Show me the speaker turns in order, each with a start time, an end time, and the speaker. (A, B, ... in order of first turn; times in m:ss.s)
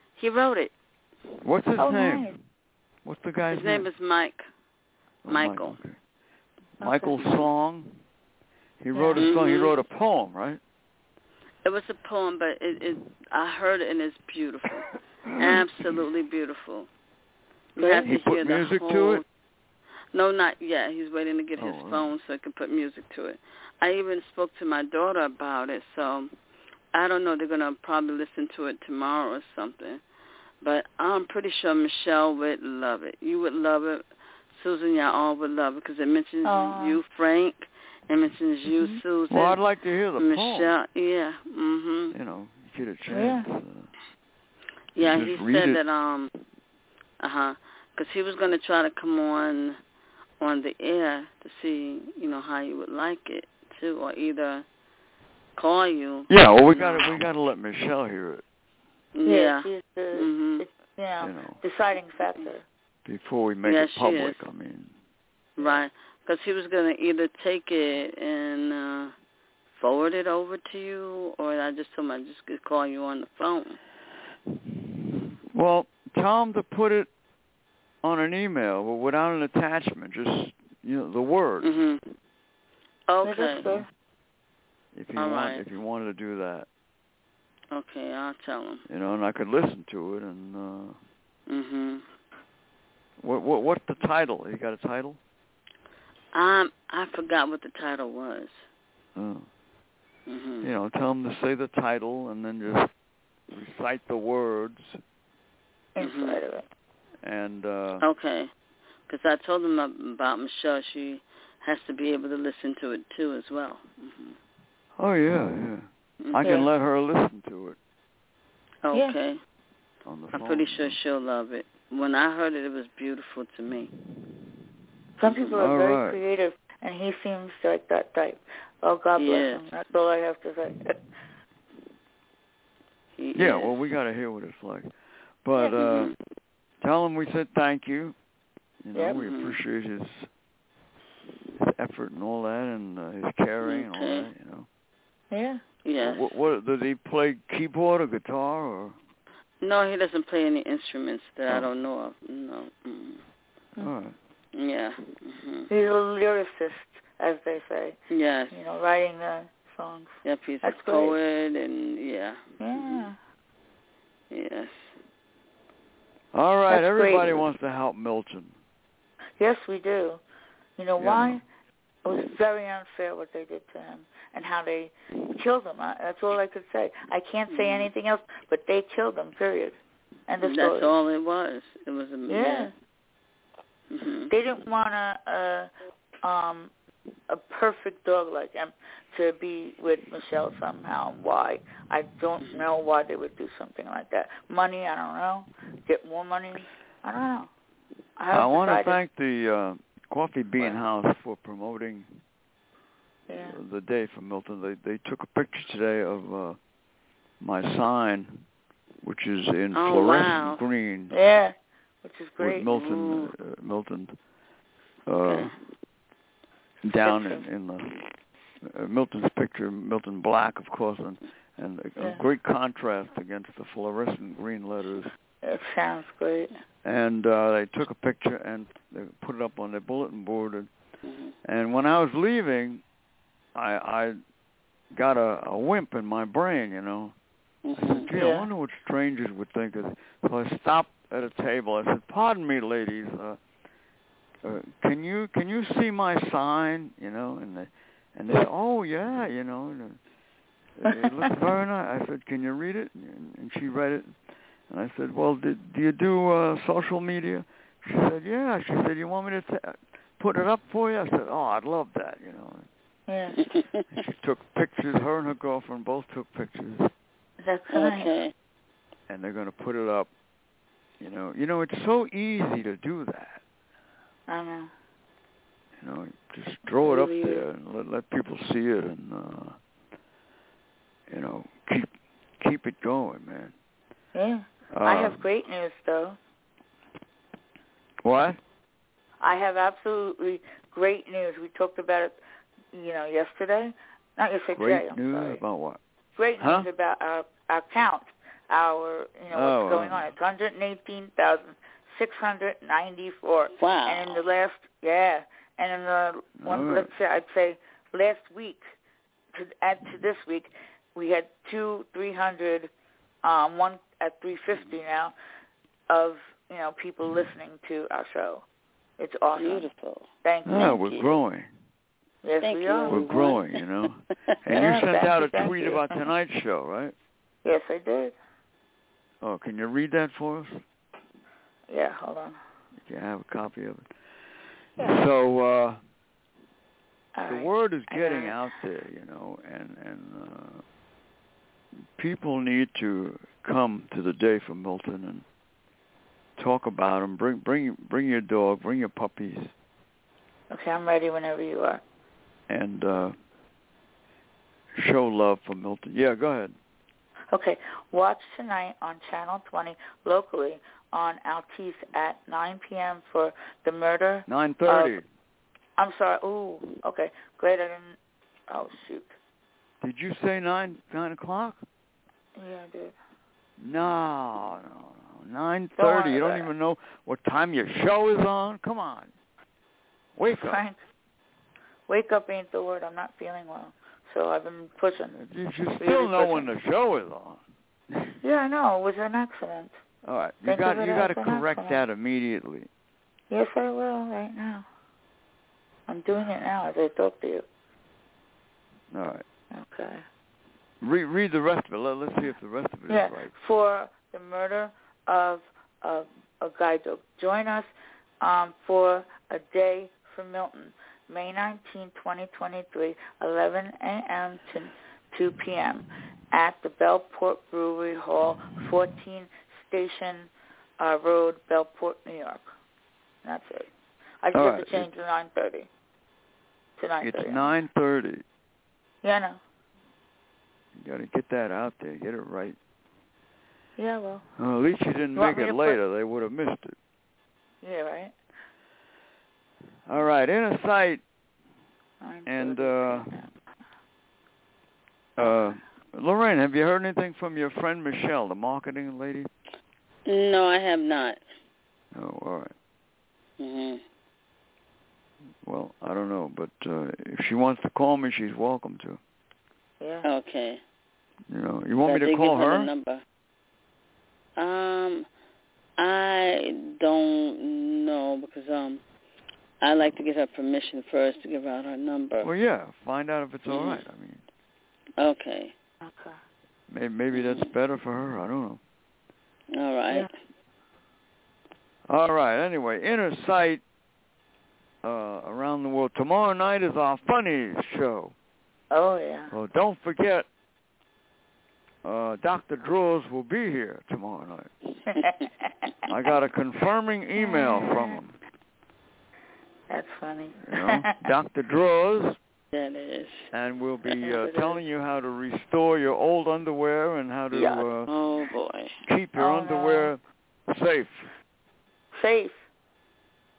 0:00.2-0:00.7 A
0:01.4-0:02.4 B
0:01.8-0:02.3 C
0:03.0-0:03.9 B
0:03.5-0:04.4 A
0:05.2-0:06.0 B
0:05.3-0:05.8 A
0:06.8-0:07.4 C
0:06.8-0:08.0 B
0:08.8-0:10.6 B
0:08.9-0:09.3 C
0:09.1-0:09.8 A
0:11.6-0:16.9 A
0:15.3-0:16.0 B
0:17.8-0:19.2 A
0:17.8-0:18.1 C
0:18.0-0:19.2 B
0:20.1-0:26.3 A
0:21.6-0:22.1 B
0:26.9-0:30.0 A
0:30.6-0:39.6 A
0:36.4-0:37.0 C
0:38.7-0:39.0 C
0:39.3-0:40.7 B
0:40.2-0:42.2 A
0:42.1-0:43.9 B
0:43.1-0:43.5 C
0:44.9-0:46.3 A
0:45.0-0:45.8 B
0:47.2-0:49.8 A
0:50.4-0:54.6 A
0:55.6-0:57.2 A
0:56.3-0:58.4 B
0:59.1-1:00.6 A
0:59.2-1:02.6 C
1:01.2-1:01.6 B
1:03.0-1:04.9 B
1:03.6-1:04.4 A
1:05.6-1:09.1 A
1:05.6-1:05.8 C
1:09.8-1:13.8 A
1:14.6-1:17.1 B
1:18.0-1:21.7 B
1:21.6-1:22.2 A
1:23.1-1:23.7 A
1:23.2-1:23.9 C
1:23.6-1:23.8 B
1:24.9-1:26.7 B
1:25.2-1:25.6 A
1:27.7-1:28.8 A
1:28.9-1:31.0 B
1:31.5-1:32.0 A
1:33.2-1:35.2 B
1:36.3-1:38.6 A
1:39.2-1:39.5 B
1:40.3-1:40.7 A
1:40.6-1:42.9 B
1:43.5-1:45.0 B
1:46.0-1:46.6 C
1:46.0-1:46.4 A
1:47.2-1:48.0 B
1:48.0-1:48.5 A
1:49.1-1:54.4 A
1:55.0-1:57.8 B
1:56.2-1:56.7 A
1:58.8-1:59.4 A
2:00.0-2:01.0 B
2:00.3-2:03.9 A
2:05.2-2:11.0 C
2:05.2-2:05.6 A
2:05.6-2:06.2 B
2:09.2-2:09.6 A
2:13.2-2:13.8 A
2:13.3-2:14.9 B
2:15.4-2:16.1 B
2:15.6-2:16.1 A
2:16.8-2:18.2 B
2:18.8-2:20.3 B
2:18.9-2:19.2 C
2:19.1-2:19.6 A
2:21.6-2:24.7 B
2:23.6-2:24.3 A
2:25.3-2:25.6 C
2:25.8-2:26.3 A
2:26.0-2:29.0 B
2:29.6-2:33.2 A
2:33.8-2:34.2 B
2:34.5-2:35.7 A
2:35.7-2:38.0 C
2:38.1-2:38.6 A
2:38.5-2:41.2 C
2:40.2-2:43.1 A
2:42.6-2:43.2 C
2:44.3-2:45.0 A
2:46.3-2:48.5 B
2:46.7-2:47.4 C
2:49.4-2:50.2 C
2:50.8-2:51.4 C
2:51.0-2:51.4 B
2:52.0-3:01.0 C
2:57.5-2:57.9 A
3:00.4-3:02.7 A
3:02.3-3:02.7 C
3:03.9-3:04.3 A
3:04.3-3:05.7 C
3:06.2-3:06.7 C
3:07.3-3:17.5 C
3:18.2-3:19.0 C
3:18.3-3:22.1 B
3:23.3-3:23.6 C
3:23.4-3:26.6 B
3:27.4-3:28.4 B
3:29.0-3:31.1 B
3:29.7-3:30.6 A
3:31.1-3:32.7 C
3:32.4-3:34.1 B
3:32.7-3:33.3 A
3:35.0-3:35.5 B
3:35.2-3:35.6 A
3:36.8-3:38.0 B
3:37.0-3:37.4 C
3:38.6-3:45.1 B
3:42.0-3:42.2 C
3:45.4-3:46.5 C
3:46.8-3:50.7 B
3:51.0-3:51.4 A
3:51.4-3:52.8 B
3:53.5-3:54.2 B
3:54.9-3:57.1 B
3:57.6-3:58.1 A
3:57.8-4:03.4 B
3:58.1-3:58.5 C
4:04.4-4:10.0 B
4:10.8-4:14.1 B
4:14.7-4:22.7 B
4:23.1-4:23.4 C
4:23.4-4:23.8 A
4:23.9-4:26.9 B
4:27.4-4:28.1 C
4:27.7-4:28.3 A
4:29.1-4:30.1 B
4:31.0-4:33.4 B
4:34.3-4:34.7 C
4:35.8-4:39.6 B
4:36.8-4:37.4 C
4:41.1-4:43.5 B
4:44.1-4:46.2 C
4:44.7-4:45.2 B
4:48.0-4:48.4 B
4:49.2-4:52.2 C
4:52.7-4:55.4 C
4:54.5-4:55.8 B
4:56.2-5:08.6 C
4:56.4-4:56.7 B
4:59.3-5:00.1 B
5:03.6-5:04.2 A
5:06.4-5:06.9 B
5:09.3-5:12.7 C
5:13.2-5:15.1 C
5:15.9-5:18.4 C
5:19.0-5:19.7 C
5:19.4-5:20.1 A
5:20.2-5:20.8 C
5:20.4-5:21.5 B
5:20.7-5:21.1 A
5:22.2-5:23.2 C
5:22.4-5:23.6 A
5:22.9-5:26.9 B
5:24.5-5:25.8 C
5:27.4-5:28.1 C
5:29.2-5:30.6 B
5:31.7-5:32.4 C
5:32.8-5:33.9 B
5:34.8-5:35.8 B
5:37.1-5:38.4 C
5:37.3-5:40.6 B
5:42.0-5:45.2 B
5:46.4-5:49.5 B
5:50.5-5:51.8 C
5:52.5-5:53.2 B
5:54.8-5:56.5 B
5:57.3-6:05.0 C
6:04.3-6:05.0 B
6:05.8-6:08.0 C
6:08.5-6:09.1 C
6:09.8-6:11.6 B
6:12.4-6:12.9 C
6:13.6-6:19.1 B
6:15.8-6:16.5 C
6:20.2-6:20.6 B
6:20.3-6:20.8 C
6:21.9-6:25.2 C
6:25.1-6:27.4 B
6:25.8-6:26.5 C
6:28.2-6:29.8 C
6:30.0-6:32.7 B
6:30.4-6:31.8 C
6:33.3-6:34.6 C
6:35.9-6:37.4 C
6:38.9-6:39.2 B
6:39.5-6:40.0 C
6:40.8-6:43.3 B
6:42.9-7:02.4 C
7:03.2-7:03.7 C
7:04.2-7:05.7 C
7:04.3-7:04.9 B
7:06.8-7:07.6 C
7:07.0-7:08.2 B
7:09.0-7:09.4 C
7:10.8-7:12.6 B
7:13.8-7:14.2 C
7:14.4-7:16.8 B
7:15.1-7:15.8 C
7:17.6-7:18.1 C
7:19.9-7:21.0 B
7:22.0-7:23.3 C
7:22.2-7:23.2 B
7:25.2-7:29.3 B
7:25.2-7:25.6 C
7:30.0-7:31.2 A
7:31.9-7:32.5 B
7:33.4-7:33.8 A
7:35.4-7:39.0 B
7:39.8-7:40.1 C
7:40.0-7:40.6 A
7:41.3-7:42.7 B
7:41.8-7:43.0 A
7:44.4-7:45.1 A
7:45.8-7:48.8 A
7:49.6-7:52.3 A
7:52.2-7:54.2 B
7:53.5-7:53.8 A
7:55.0-7:55.5 A
7:55.8-7:56.2 C
7:56.7-7:58.6 B
7:57.1-7:57.5 A
7:59.5-8:00.1 A
8:01.9-8:03.6 B
8:04.8-8:08.1 B
8:08.7-8:09.3 C
8:09.3-8:10.2 B
8:11.8-8:14.5 B
8:14.9-8:15.4 C
8:15.9-8:18.2 B
8:17.2-8:18.0 C
8:19.7-8:20.9 C
8:20.4-8:22.2 B
8:22.5-8:23.3 A
8:23.3-8:27.9 B
8:23.9-8:24.6 C
8:27.3-8:27.7 C
8:27.9-8:28.8 A
8:28.8-8:31.1 B
8:29.2-8:29.9 C
8:31.9-8:32.4 C